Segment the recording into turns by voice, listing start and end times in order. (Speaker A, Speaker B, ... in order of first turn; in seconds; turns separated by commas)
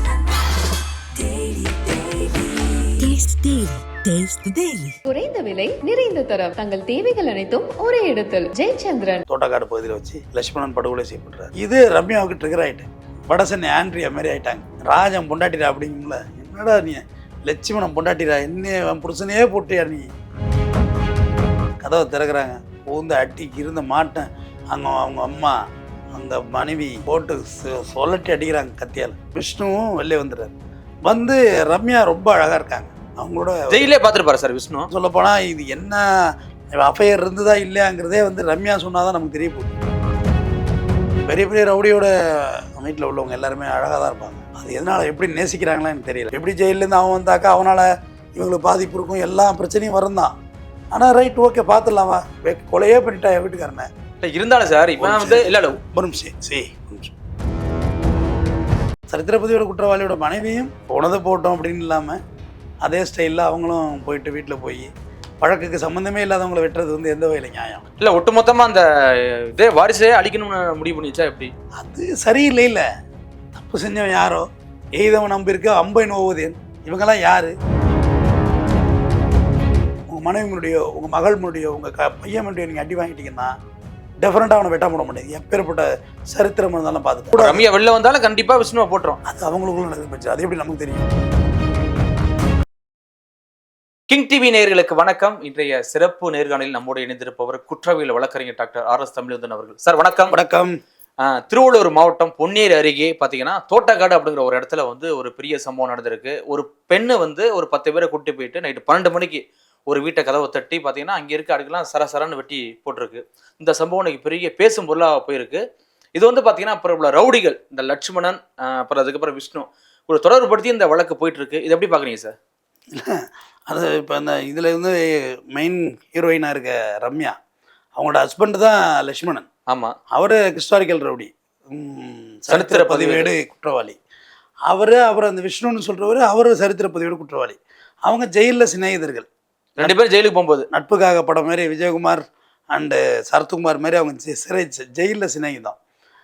Speaker A: 1.2-2.5, Speaker B: 3.0-5.0, Speaker A: 5.1-9.2, Speaker C: 9.3-20.1, Speaker C: 21.8-25.6, Speaker C: 26.1-30.5, Speaker C: 31.1-33.9, Speaker D: 33.7-34.9, Speaker C: 34.9-39.7, Speaker C: 41.3-50.3, Speaker C: 50.9-53.9, Speaker D: 54.2-55.8, Speaker C: 55.0-57.1, Speaker C: 59.1-62.2, Speaker C: 62.8-67.8, Speaker D: 68.0-71.5, Speaker C: 71.8-72.9, Speaker C: 73.5-77.5, Speaker C: 80.1-83.5, Speaker C: 84.2-87.6, Speaker D: 87.4-89.2, Speaker C: 89.2-91.0, Speaker D: 94.1-100.4, Speaker C: 100.3-100.8, Speaker D: 101.2-115.6, Speaker D: 116.2-122.3, Speaker C: 122.9-127.3, Speaker C: 128.0-129.5, Speaker D: 129.7-129.9, Speaker C: 130.1-134.0, Speaker D: 132.5-133.3, Speaker C: 134.7-139.3, Speaker D: 139.8-140.7, Speaker C: 140.7-145.8